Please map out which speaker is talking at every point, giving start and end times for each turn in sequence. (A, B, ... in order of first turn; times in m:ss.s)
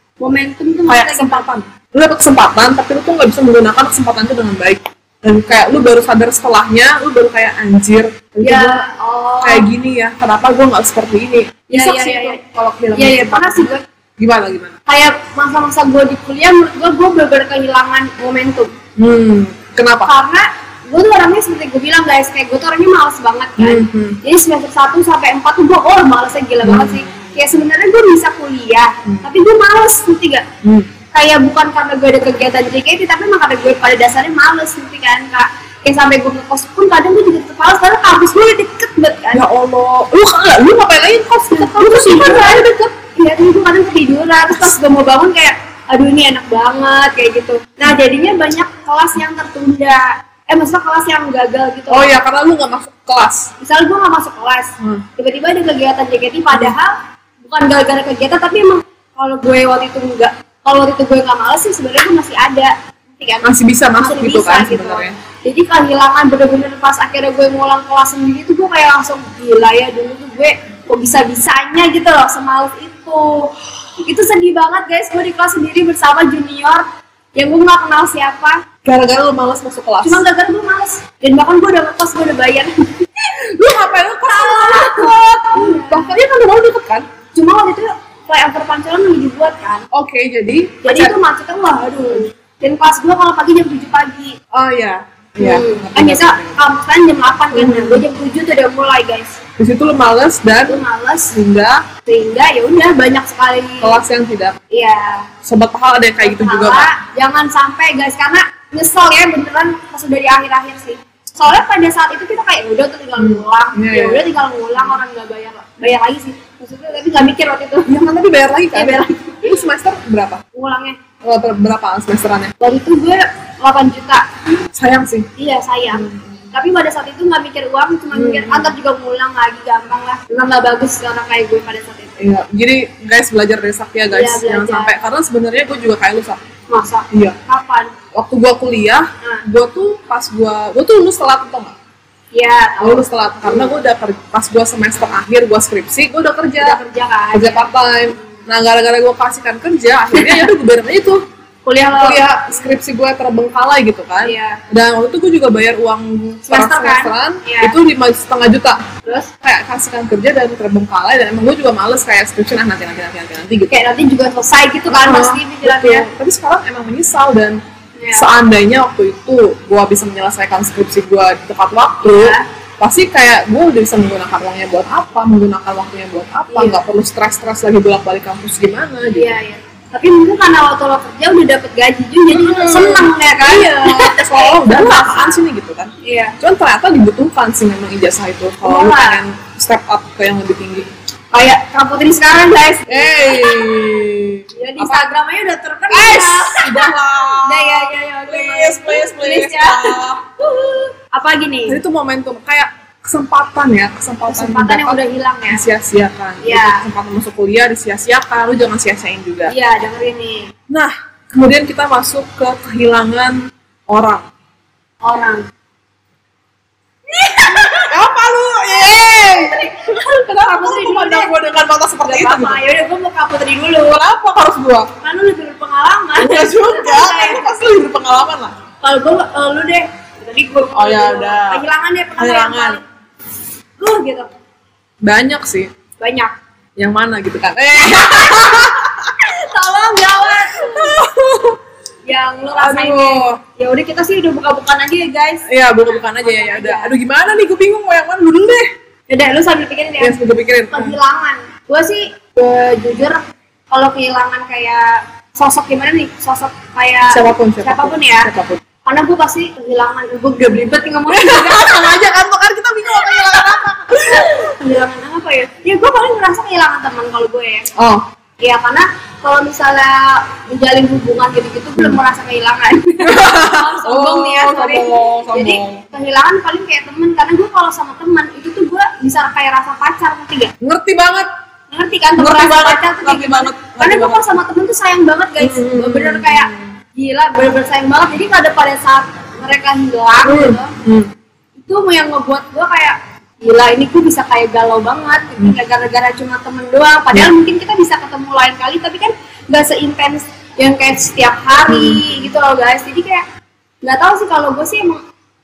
0:00.2-0:01.5 A
0:00.9-0:08.8 B
0:08.4-0:09.7 A
0:09.4-0:14.7 B
0:11.7-0:12.4 A
0:13.0-0:13.8 A
0:14.9-0:18.8 A
0:19.0-0:20.1 B
0:20.0-0:30.5 A
0:23.6-0:24.2 B
0:26.6-0:27.4 B
0:30.6-0:30.9 B
0:31.1-0:39.4 A
0:39.3-0:42.7 B
0:41.5-0:52.2 A
0:44.5-0:44.8 B
0:51.9-0:53.5 B
0:53.6-1:18.6 A
1:03.4-1:05.2 B
1:18.8-1:20.2 B
1:20.0-1:23.3 A
1:23.4-1:27.1 B
1:24.2-1:26.2 A
1:27.4-1:29.9 A
1:29.9-1:31.2 B
1:30.8-1:34.4 A
1:34.5-1:36.6 B
1:35.4-1:39.4 A
1:37.5-1:38.0 B
1:39.6-1:40.8 B
1:40.7-1:41.4 A
1:41.3-1:41.8 B
1:42.0-1:44.0 A
1:43.8-1:44.6 B
1:44.7-1:45.3 A
1:45.4-1:46.9 B
1:46.2-1:58.0 A
1:53.2-1:54.3 B
1:57.9-2:00.4 B
1:58.7-1:59.6 A
2:00.5-2:01.0 A
2:01.2-2:02.5 B
2:02.6-2:04.4 A
2:04.8-2:05.3 B
2:05.4-2:12.2 A
2:05.9-2:06.5 B
2:08.1-2:08.8 B
2:12.2-2:16.4 B
2:14.1-2:15.0 A
2:16.7-2:17.9 A
2:17.1-2:17.4 B
2:18.2-2:21.8 B
2:22.3-2:23.8 A
2:22.8-2:26.8 B
2:26.6-2:28.4 A
2:27.3-2:31.2 B
2:30.2-2:30.5 A
2:31.7-2:32.7 A
2:31.9-2:38.8 B
2:34.2-2:34.6 A
2:36.5-2:37.8 A
2:39.4-2:43.8 B
2:43.7-2:46.1 A
2:44.9-2:47.6 B
2:48.0-2:48.3 A
2:48.1-2:59.3 B
2:52.0-2:52.4 A
2:56.5-2:56.8 A
2:59.1-3:05.4 A
3:02.3-3:10.9 B
3:06.0-3:06.4 A
3:08.6-3:09.2 A
3:11.3-3:14.0 A
3:12.9-3:15.1 B
3:14.5-3:21.8 A
3:15.9-3:20.2 B
3:21.7-3:29.5 B
3:24.3-3:25.6 A
3:26.4-3:26.8 A
3:29.5-3:30.5 A
3:30.7-3:33.4 B
3:33.9-3:34.2 B
3:35.0-3:35.4 A
3:37.1-3:38.0 A
3:37.8-3:42.6 B
3:38.7-3:41.5 A
3:42.0-3:44.0 A
3:43.9-3:44.9 B
3:45.0-3:47.5 A
3:46.2-3:48.6 B
3:48.8-3:52.8 A
3:50.7-3:51.6 B
3:52.2-3:52.8 B
3:53.8-3:54.3 A
3:55.0-3:55.7 B
3:56.0-3:56.4 A
3:56.8-3:59.2 B
3:57.8-4:01.0 A
3:59.8-4:01.6 B
4:02.1-4:07.0 A
4:02.5-4:03.4 B
4:05.5-4:08.7 B
4:09.1-4:10.2 A
4:10.0-4:11.0 B
4:10.7-4:18.3 A
4:17.1-4:18.6 B
4:18.8-4:22.1 A
4:21.1-4:24.5 B
4:22.9-4:23.5 A
4:24.1-4:27.7 A
4:27.8-4:28.0 B
4:28.4-4:40.5 A
4:33.0-4:35.8 B
4:40.6-4:41.3 B
4:41.7-4:50.7 A
4:42.2-4:44.2 B
4:45.4-4:46.7 B
4:50.2-4:51.1 B
4:51.6-5:03.2 A
5:01.7-5:02.2 B
5:03.8-5:05.0 A